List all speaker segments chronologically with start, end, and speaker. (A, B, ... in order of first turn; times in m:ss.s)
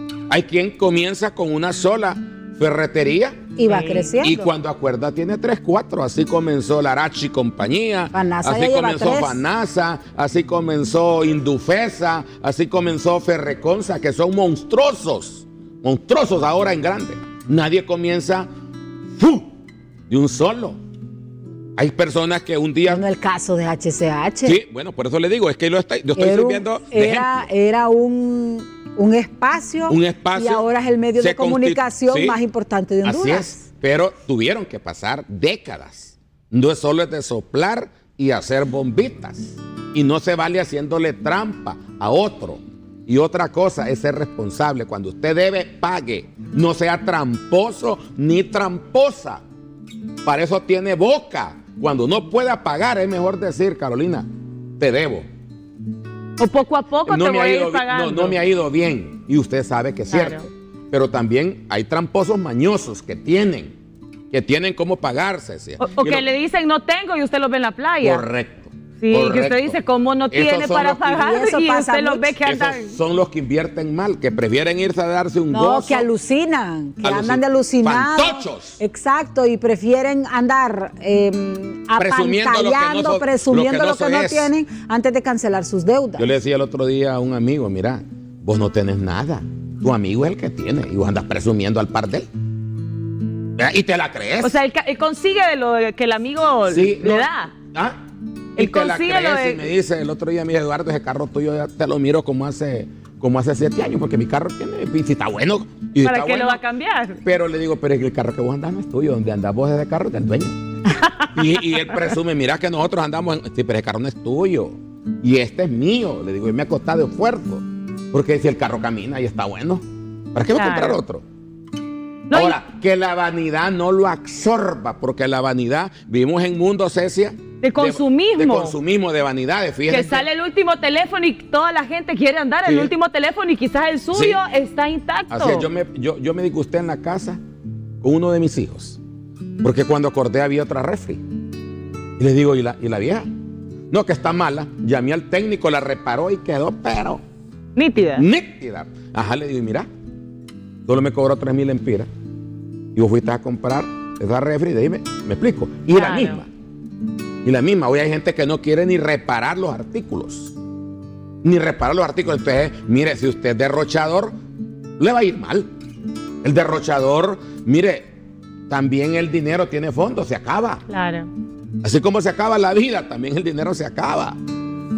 0:00.3-0:18.5 A
0:03.6-0:04.5 B
0:03.7-0:04.0 C
0:08.1-0:09.4 B
0:19.2-0:19.5 A
0:20.1-0:20.8 A
0:21.8-0:23.0 A
0:22.8-0:24.6 B
0:24.4-0:27.5 A
0:26.2-0:33.6 B
0:29.9-0:30.6 A
0:31.2-0:32.4 A
0:33.0-0:49.4 A
0:50.2-0:54.3 A
0:54.8-0:55.2 A
0:56.4-0:58.4 C
0:57.0-1:03.7 A
1:00.1-1:00.4 C
1:04.3-1:06.2 A
1:05.8-1:08.2 C
1:08.0-1:09.8 A
1:09.0-1:13.0 C
1:10.3-1:11.2 A
1:11.1-1:12.4 B
1:12.4-1:16.1 A
1:15.5-1:26.3 B
1:17.0-1:18.8 A
1:22.0-1:24.5 A
1:26.2-1:32.3 A
1:33.6-1:34.6 A
1:34.4-1:37.5 C
1:36.7-1:38.0 A
1:38.6-1:46.6 A
1:38.6-1:39.6 C
1:46.0-1:47.2 C
1:47.2-1:50.6 A
1:51.0-1:51.6 C
1:51.2-2:01.2 A
2:00.6-2:01.0 C
2:02.3-2:02.6 C
2:02.3-2:10.2 A
2:07.6-2:08.8 C
2:09.9-2:15.7 C
2:12.6-2:12.9 A
2:14.1-2:14.4 A
2:15.3-2:17.4 A
2:18.0-2:19.0 A
2:19.6-2:21.2 A
2:22.2-2:23.3 A
2:23.9-2:27.2 A
2:27.8-2:28.2 C
2:28.1-2:29.9 A
2:30.9-2:32.1 A
2:32.9-2:36.5 A
2:35.9-2:36.4 C
2:37.4-2:40.5 A
2:41.4-2:44.3 A
2:45.0-2:45.7 A
2:46.4-2:48.1 A
2:48.7-2:50.8 A
2:50.9-2:51.3 C
2:51.8-2:54.4 A